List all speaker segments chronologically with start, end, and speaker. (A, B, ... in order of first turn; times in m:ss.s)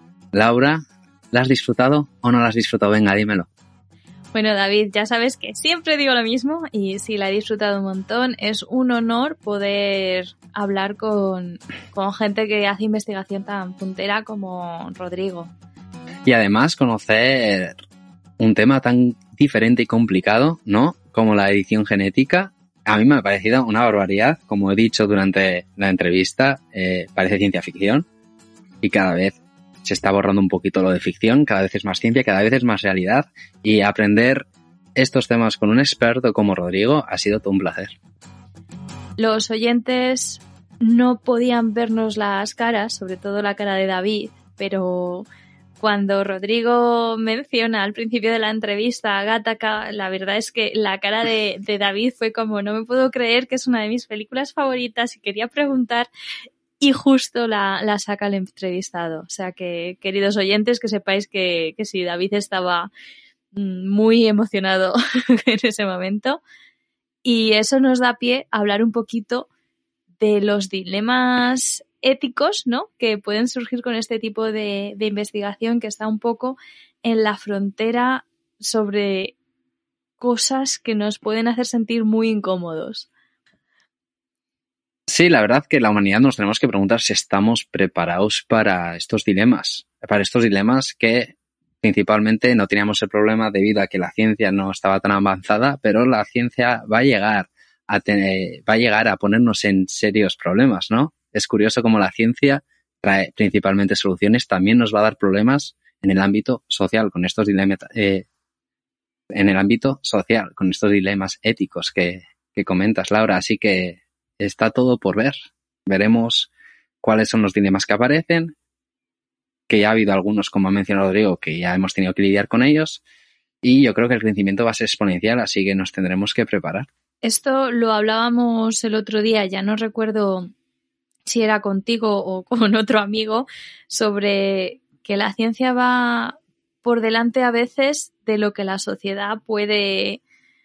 0:00.3-0:03.5 A
0:04.3-0:15.5 B
0:16.2-0:17.8 A
0:18.4-0:28.1 A
0:28.8-0:38.0 A
0:39.2-0:45.3 B
0:45.8-0:56.1 B
0:56.8-1:02.9 B
1:03.5-1:06.4 B
1:07.2-1:09.5 B
1:10.2-1:19.3 B
1:20.2-1:23.1 B
1:25.1-1:48.2 A
1:49.3-1:56.5 A
1:57.0-1:58.6 A
1:59.7-2:03.0 A
2:03.6-2:06.9 A
2:07.2-2:10.5 B
2:11.3-2:20.2 B